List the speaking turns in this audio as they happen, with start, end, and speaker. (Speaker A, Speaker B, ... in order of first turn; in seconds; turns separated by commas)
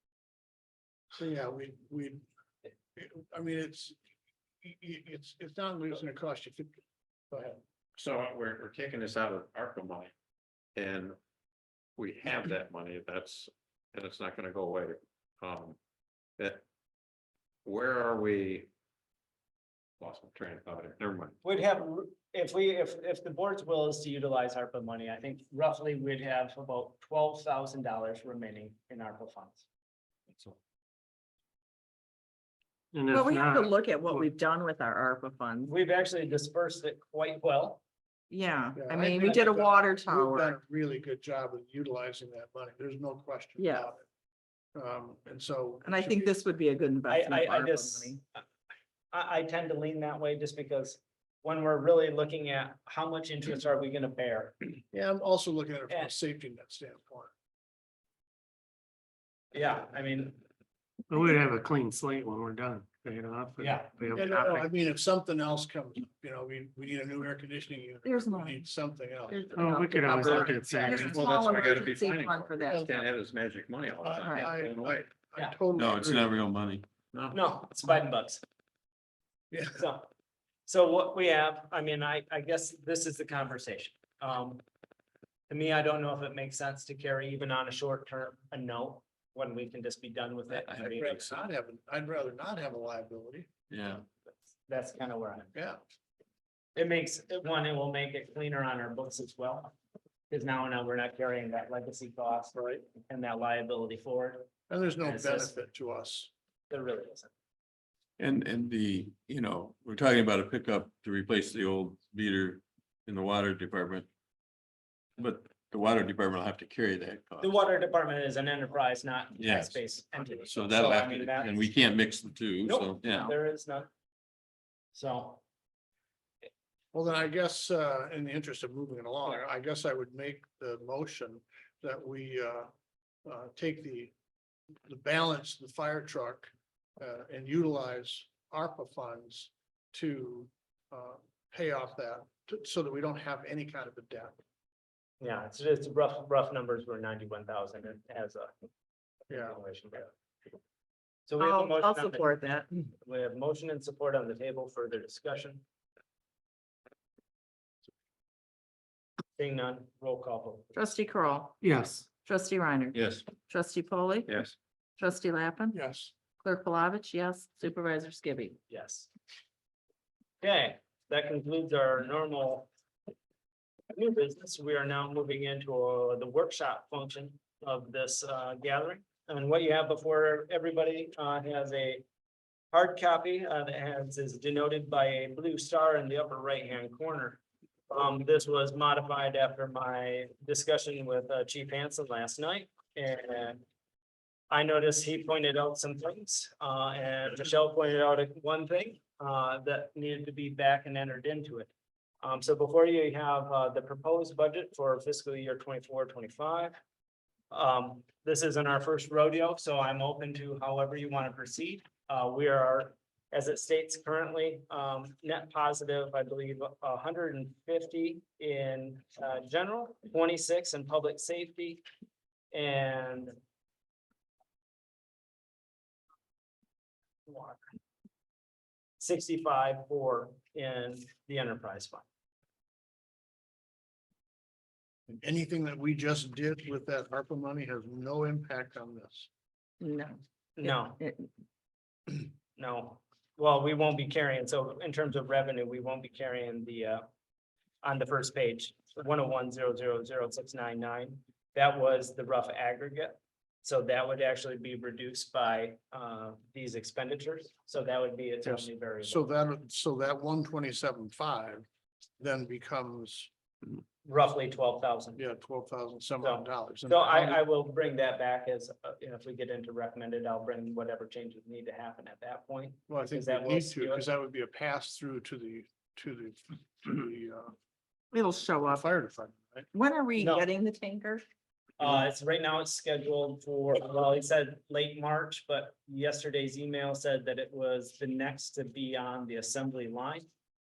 Speaker A: 1.1-2.2, Speaker A: 2.9-4.0, Speaker A: 4.6-6.8, Speaker A: 7.3-7.6, Speaker B: 8.0-10.1, Speaker B: 10.7-11.2, Speaker B: 12.0-15.8, Speaker B: 16.4-16.6, Speaker B: 17.6-18.7, Speaker B: 20.0-21.4, Speaker C: 21.4-29.6, Speaker D: 32.9-34.3, Speaker E: 33.1-35.7, Speaker C: 35.6-37.8, Speaker E: 38.3-40.6, Speaker A: 38.8-44.0, Speaker E: 43.6-43.9, Speaker A: 44.7-46.3, Speaker E: 45.8-48.2, Speaker C: 47.1-48.4, Speaker C: 49.1-54.6, Speaker A: 54.9-57.3, Speaker C: 59.5-60.4, Speaker D: 61.1-64.7, Speaker C: 63.6-63.9, Speaker A: 64.1-71.1, Speaker E: 68.0-68.7, Speaker E: 69.3-73.0, Speaker D: 69.5-71.3, Speaker B: 70.9-75.0, Speaker A: 74.0-76.3, Speaker E: 74.2-74.6, Speaker F: 75.7-76.9, Speaker C: 77.3-78.4, Speaker A: 79.5-79.8, Speaker C: 79.7-80.1, Speaker C: 80.7-84.6, Speaker C: 85.5-91.3, Speaker F: 90.5-90.8, Speaker A: 90.8-93.5, Speaker F: 93.7-94.0, Speaker C: 94.7-95.5, Speaker A: 95.5-95.8, Speaker C: 96.7-99.7, Speaker C: 100.3-104.5, Speaker A: 102.5-102.8, Speaker A: 104.7-106.3, Speaker C: 105.0-105.6, Speaker C: 106.7-107.3, Speaker F: 108.2-114.0, Speaker F: 115.2-117.5, Speaker C: 117.4-121.7, Speaker F: 119.4-119.8, Speaker F: 120.4-123.3, Speaker C: 122.6-123.9, Speaker C: 124.9-125.4, Speaker A: 126.9-132.7, Speaker A: 133.2-134.1, Speaker A: 134.9-144.4, Speaker C: 145.2-148.5, Speaker C: 149.3-150.1, Speaker A: 149.3-149.6, Speaker C: 151.3-155.6, Speaker E: 151.4-152.7, Speaker C: 159.4-160.8, Speaker E: 160.7-164.3, Speaker D: 161.6-162.1, Speaker B: 162.9-163.3, Speaker B: 164.3-164.5, Speaker E: 165.0-165.8, Speaker A: 165.7-166.1, Speaker E: 166.3-168.6, Speaker C: 168.7-169.1, Speaker C: 170.4-172.7, Speaker C: 173.9-182.0, Speaker C: 182.7-193.6, Speaker C: 194.5-201.7, Speaker C: 202.2-206.8, Speaker C: 207.5-221.8, Speaker C: 222.5-223.3, Speaker C: 227.3-227.6, Speaker C: 229.0-232.0, Speaker A: 235.1-239.3, Speaker E: 239.8-241.3, Speaker C: 240.6-241.0, Speaker C: 242.1-247.0, Speaker C: 247.8-259.3, Speaker A: 258.4-261.6, Speaker A: 262.2-263.3, Speaker C: 264.0-265.2, Speaker A: 265.1-267.4, Speaker C: 266.2-274.1, Speaker A: 272.9-277.5, Speaker E: 278.1-278.9, Speaker A: 278.6-279.7, Speaker E: 279.7-281.2, Speaker C: 280.2-280.4, Speaker C: 281.8-290.2